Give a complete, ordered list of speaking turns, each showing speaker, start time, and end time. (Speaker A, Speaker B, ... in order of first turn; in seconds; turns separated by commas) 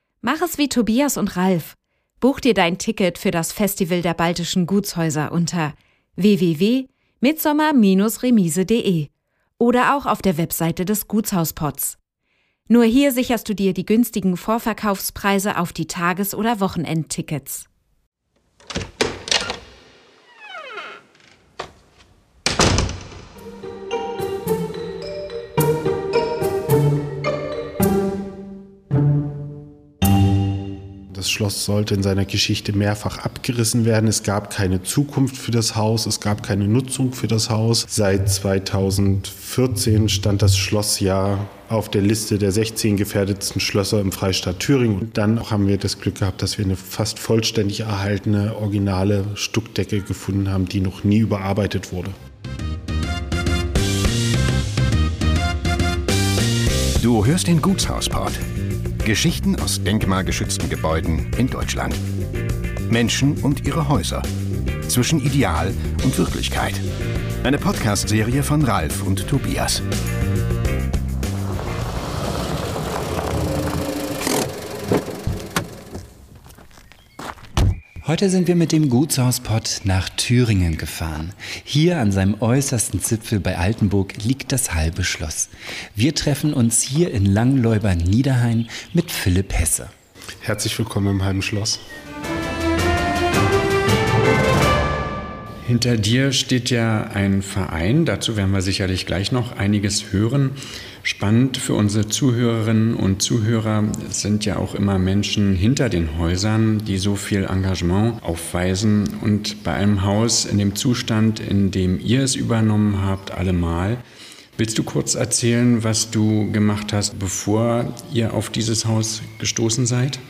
Speaker A: 0.2-12.0, Speaker A: 12.7-17.6, Speaker B: 31.1-52.1, Speaker C: 57.0-58.4, Speaker C: 59.0-62.0, Speaker C: 62.9-64.3, Speaker C: 64.9-66.8, Speaker C: 67.4-69.8, Speaker D: 78.0-89.9, Speaker B: 90.4-91.8, Speaker E: 95.6-114.0, Speaker E: 114.6-120.2